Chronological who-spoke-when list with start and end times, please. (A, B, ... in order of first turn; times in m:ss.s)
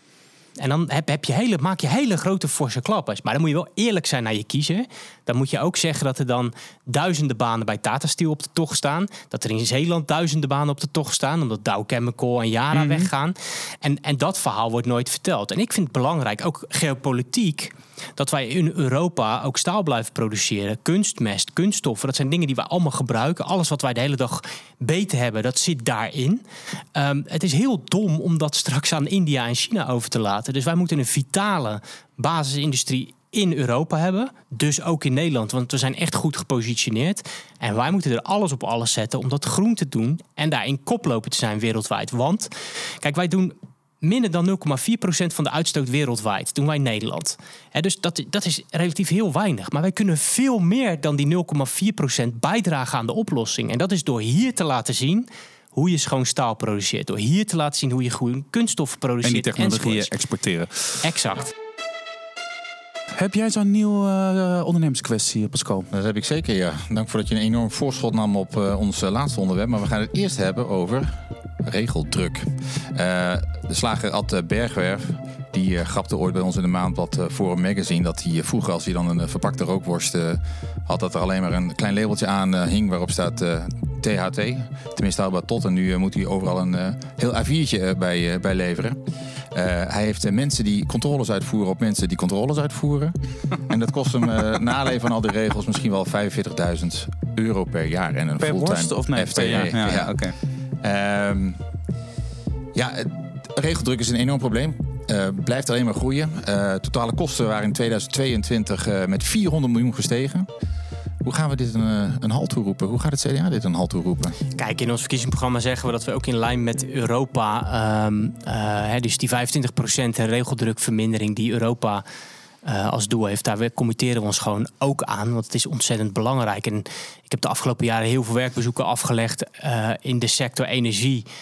0:00.6-0:42.5 A
0:12.7-0:13.1 B
0:43.0-1:00.1 A
0:59.2-1:01.0 B
1:01.0-1:01.5 A
1:03.1-1:05.9 B
1:05.9-1:11.1 C
1:11.6-1:29.0 C
1:29.5-1:33.1 C
1:33.7-1:40.2 C
1:38.4-1:40.4 B
1:40.8-1:41.6 C
1:42.8-1:50.5 C
1:51.2-1:54.4 C
1:54.6-2:02.0 A
2:02.6-2:11.2 A